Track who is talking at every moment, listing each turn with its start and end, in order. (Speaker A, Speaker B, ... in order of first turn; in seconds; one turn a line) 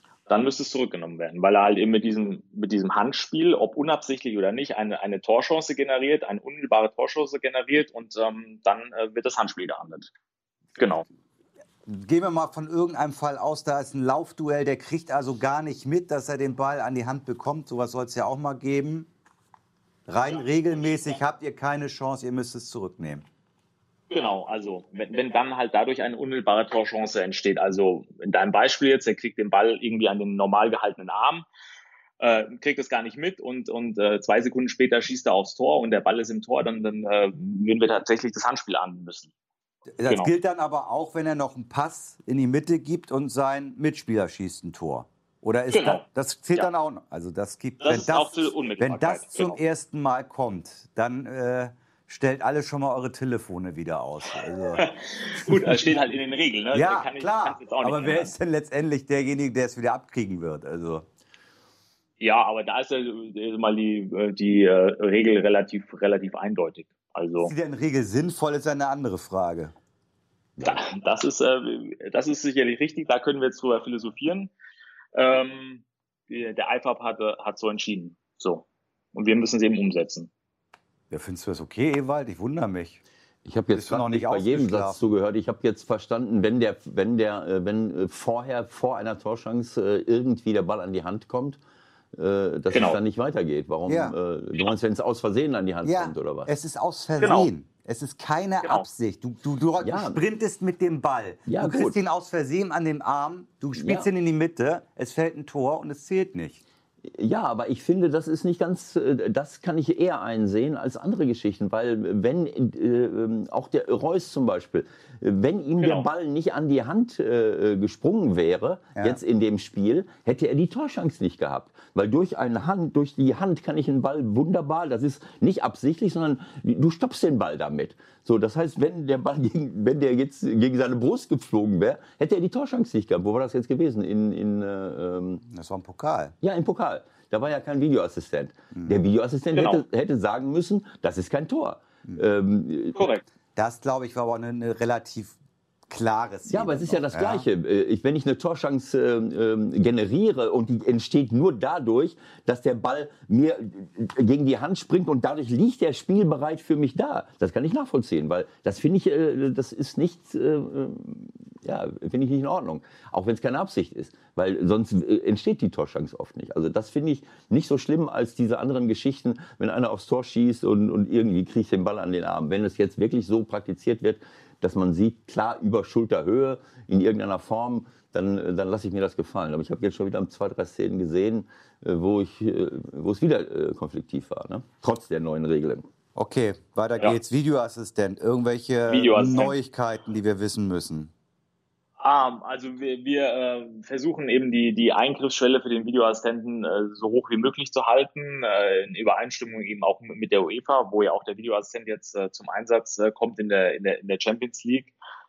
Speaker A: 0.3-10.1
Speaker A: 10.8-11.0
Speaker B: 11.8-19.1
Speaker B: 20.1-23.2
Speaker A: 24.1-31.4
Speaker A: 32.2-39.3
Speaker B: 40.0-54.9
Speaker A: 40.0-40.3
Speaker A: 45.7-46.0
Speaker A: 47.8-49.6
Speaker A: 54.7-58.3
Speaker B: 56.7-61.0
Speaker A: 62.2-67.5
Speaker B: 67.4-69.7
Speaker A: 70.6-74.5
Speaker A: 75.1-80.3
Speaker B: 81.1-83.0
Speaker C: 83.4-91.6
Speaker B: 83.7-85.0
Speaker C: 92.1-96.5
Speaker A: 92.7-93.0
Speaker B: 93.9-94.1
Speaker B: 95.8-106.6
Speaker A: 97.2-97.5
Speaker C: 99.8-100.2
Speaker C: 101.5-102.0
Speaker C: 103.8-104.0
Speaker C: 107.0-135.4
Speaker A: 115.8-116.0
Speaker B: 135.5-136.3
Speaker C: 136.4-143.0
Speaker A: 139.5-139.8
Speaker A: 143.0-143.2
Speaker B: 143.6-145.4
Speaker B: 145.9-147.4
Speaker C: 146.5-185.9
Speaker B: 186.2-191.1
Speaker A: 188.9-189.5
Speaker A: 192.0-204.9